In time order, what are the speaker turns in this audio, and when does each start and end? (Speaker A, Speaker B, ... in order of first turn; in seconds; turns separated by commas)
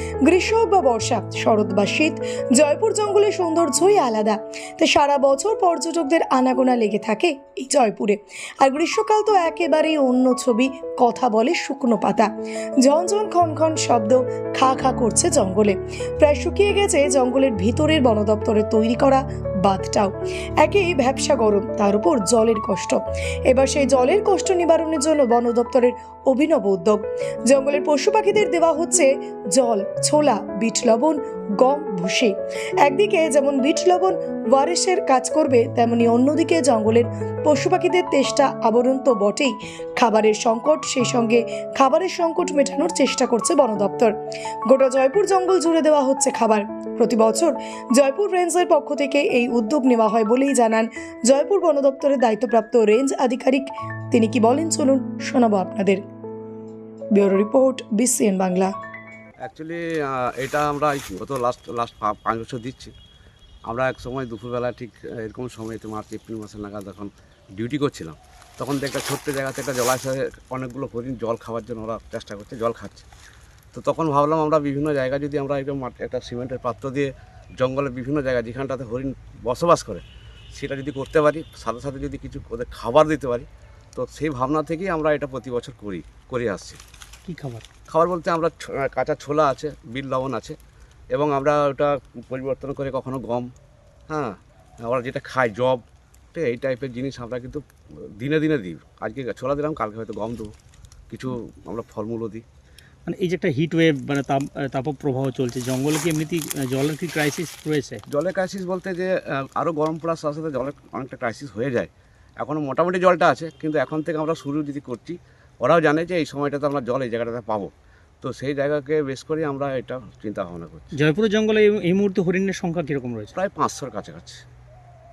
Speaker A: 0.2-12.3, Speaker A: 12.8-44.1, Speaker A: 44.7-56.0, Speaker A: 57.1-58.7, Speaker B: 59.5-62.9, Speaker B: 63.7-73.1, Speaker B: 73.7-80.0, Speaker B: 80.5-86.8, Speaker C: 87.2-87.6, Speaker B: 87.9-90.6, Speaker B: 91.1-93.5, Speaker B: 94.1-95.8, Speaker B: 96.3-97.6, Speaker B: 98.2-100.5, Speaker B: 101.1-102.4, Speaker C: 103.1-108.0, Speaker B: 108.1-117.7, Speaker B: 118.2-120.9, Speaker C: 120.9-123.3, Speaker B: 123.3-124.4